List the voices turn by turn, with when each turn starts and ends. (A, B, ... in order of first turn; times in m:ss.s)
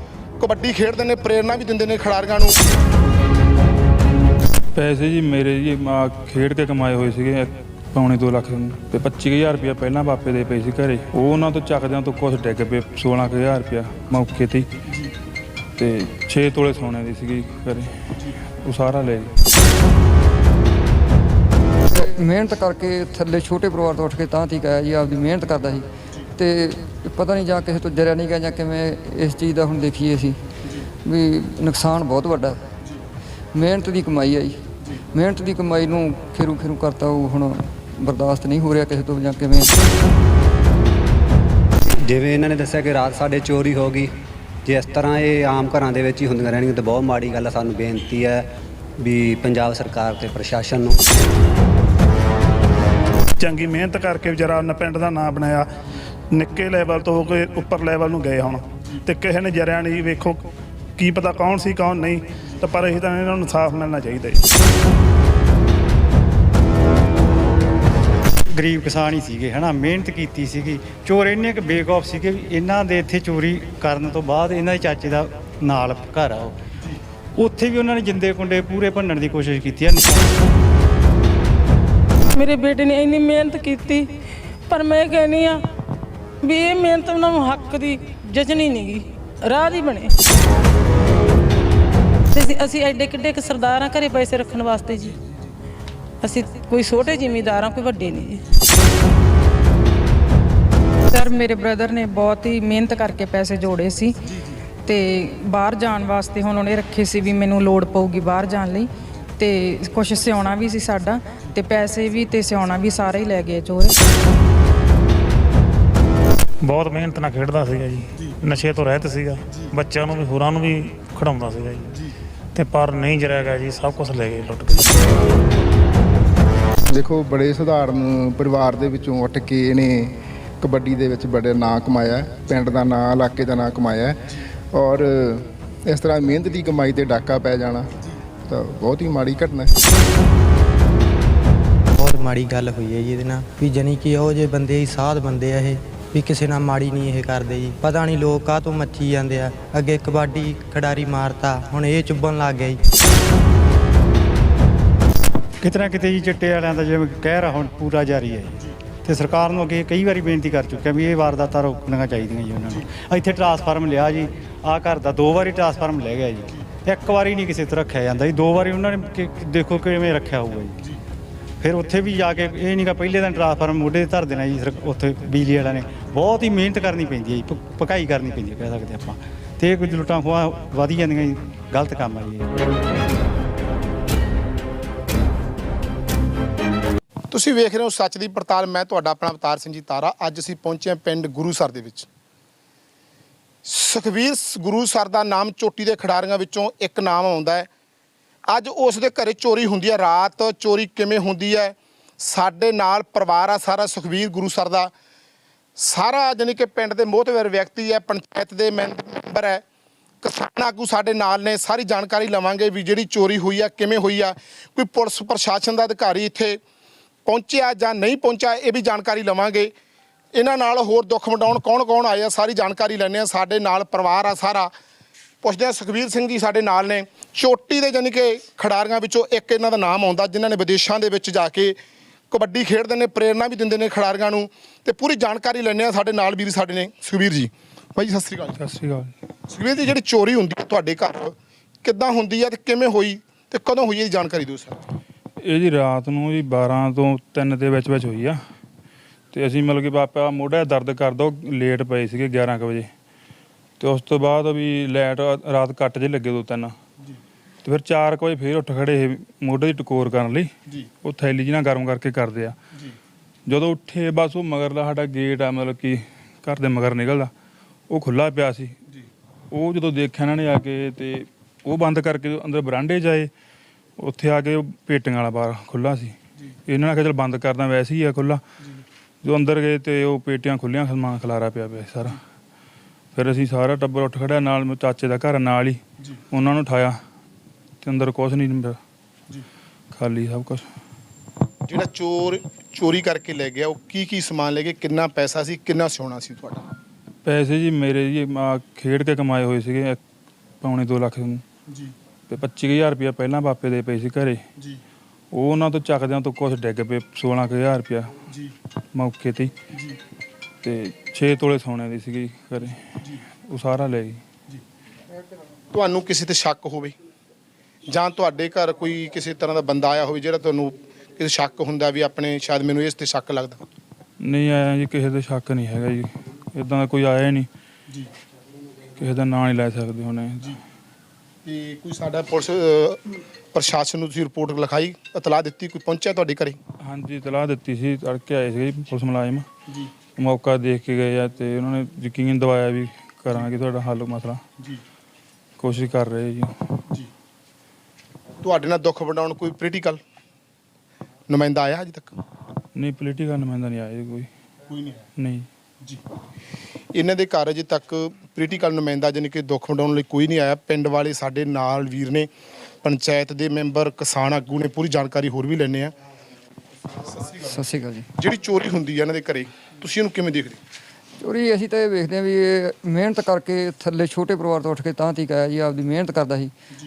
0:00.4-0:02.6 A
0:04.8-0:14.7 B
0:15.8-0:19.3 B
0:21.9-0:30.4 C
0:31.1-0:32.6 C
0:33.6-0:39.7 C
0:42.0-0:44.1 D
0:44.6-0:48.4 D
0:49.0-0:51.0 D
0:53.4-0:55.7 E
0:56.3-1:00.4 E
1:01.0-1:04.5 E
1:08.5-1:16.6 F
1:17.4-1:20.4 F
1:22.3-1:24.1 G
1:24.7-1:25.6 G
1:26.4-1:30.1 G
1:32.3-1:35.2 G
1:36.2-1:38.4 G
1:41.1-1:44.3 H
1:44.9-1:54.0 H
1:56.6-2:05.1 I
2:06.9-2:17.9 J
2:18.5-2:19.7 J
2:22.0-2:32.8 K
2:35.6-2:50.8 F
2:51.6-3:02.6 F
3:07.3-3:12.1 A
3:13.6-3:17.7 A
3:18.5-3:24.9 A
3:25.8-3:29.6 A
3:30.2-3:36.6 A
3:37.3-3:39.7 A
3:40.4-3:44.7 A
3:45.4-3:51.8 A
3:52.3-3:58.6 A
3:58.6-3:59.1 B
3:59.5-4:04.8 A
4:05.4-4:08.4 B
4:09.3-4:12.9 B
4:13.8-4:16.8 B
4:17.6-4:20.5 B
4:21.0-4:22.6 B
4:23.5-4:27.3 B
4:27.9-4:28.8 B
4:29.5-4:33.3 B
4:34.0-4:36.2 B
4:36.7-4:38.4 B
4:39.2-4:42.2 B
4:43.2-4:47.0 B
4:47.8-4:48.8 B
4:49.9-4:50.7 B
4:51.7-4:56.6 A
4:57.2-5:00.0 B
5:00.6-5:01.4 B
5:02.3-5:04.4 B
5:05.3-5:08.2 B
5:09.0-5:09.5 B
5:10.6-5:14.2 B
5:15.7-5:17.0 A
5:17.9-5:23.6 A
5:24.2-5:27.5 B
5:29.0-5:30.6 B
5:31.4-5:33.0 A
5:33.5-5:36.6 A
5:36.8-5:39.5 B
5:40.2-5:44.4 B
5:45.6-5:46.6 B
5:48.4-5:50.0 A
5:51.3-5:52.1 A
5:52.8-5:54.3 B
5:54.7-5:55.0 A
5:55.2-5:55.5 B
5:57.0-6:02.3 A
6:02.8-6:05.9 A
6:07.5-6:08.1 C
6:08.2-6:10.6 A
6:11.2-6:16.5 C